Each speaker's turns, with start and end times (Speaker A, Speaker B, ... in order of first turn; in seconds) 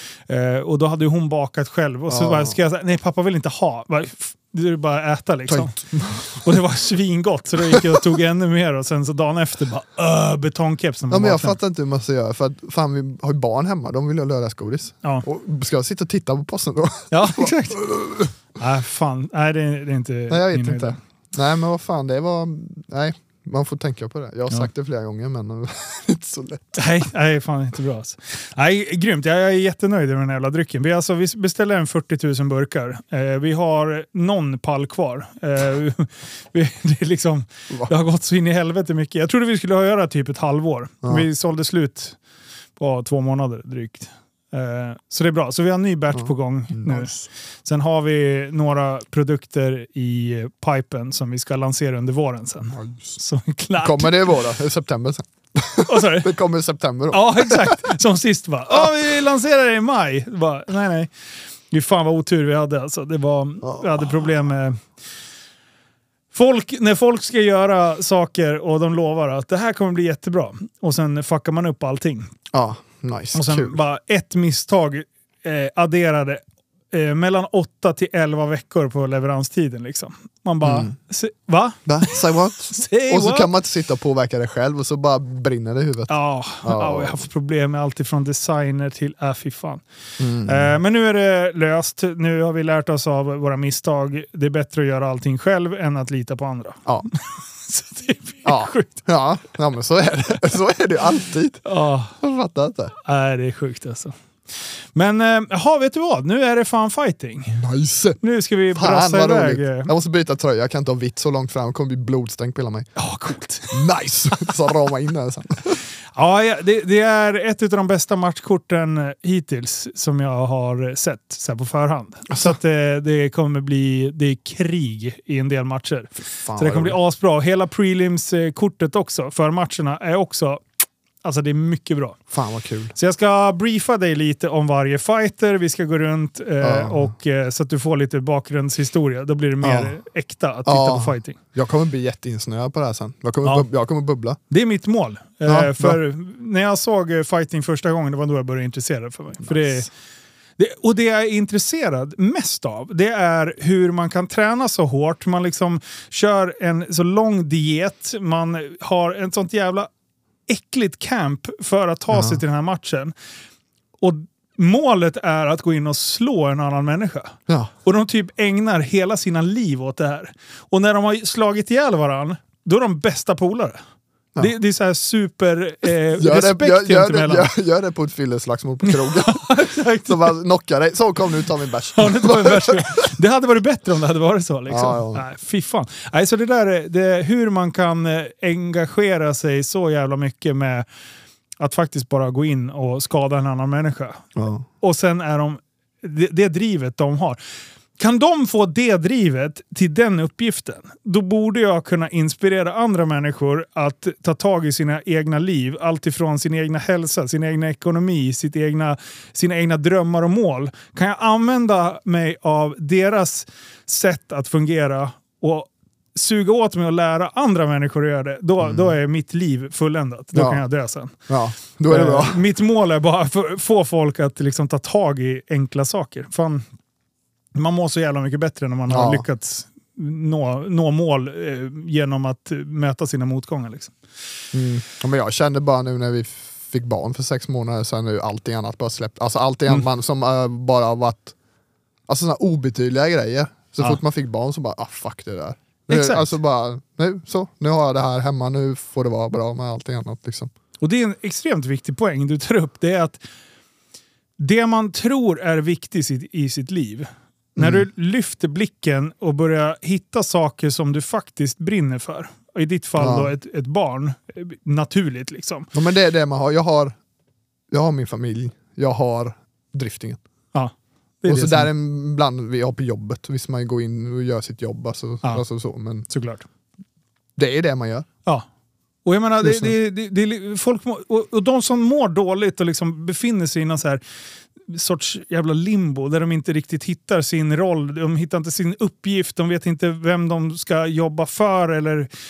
Speaker A: 0.3-11.6, 17.1-17.9, 18.6-21.0, 26.7-42.2, 42.8-54.4, 55.9-56.3, 57.1-61.1, 61.7-64.8, 66.3-72.3, 73.3-83.5, 86.1-89.8, 90.4-99.0, 101.6-102.2, 103.0-104.1, 104.9-107.6, 108.2-109.9, 113.0-113.8, 116.2-130.6, 131.2-132.2, 132.9-141.4, 144.5-149.9, 150.6-159.9, 160.5-163.1, 164.0-173.8, 174.4-177.5, 178.8-180.3, 182.0-190.8, 191.6-194.3, 194.8-197.4, 198.0-221.2, 221.9-226.6, 227.5-233.9, 245.9-246.3, 250.8-253.2, 254.4-265.7, 270.5-271.7, 276.1-276.4, 279.0-284.0, 284.7-292.1
Speaker B: 2.1-2.5, 5.5-6.6, 7.7-8.0, 11.1-18.3, 20.3-26.9, 46.1-47.3, 52.7-53.2, 53.8-57.9, 63.6-64.1, 72.5-73.8, 80.6-80.9, 81.9-86.1, 86.6-87.2, 90.2-90.8, 98.5-101.6, 102.2-102.9, 107.5-108.2, 108.7-112.9, 113.7-115.8, 122.3-122.6, 126.3-127.0, 132.3-132.9, 136.6-137.1, 139.6-139.9, 140.7-144.4, 145.5-146.0, 149.4-149.9, 162.1-162.4, 176.2-183.1, 184.7-185.2, 194.4-194.6, 218.6-218.9, 220.3-220.6, 221.3-222.4, 228.9-229.2, 234.5-241.3, 242.1-250.5, 257.6-257.9, 263.0-263.3, 265.7-267.0, 267.7-270.2, 271.3-276.1, 277.4-278.1, 279.4-279.7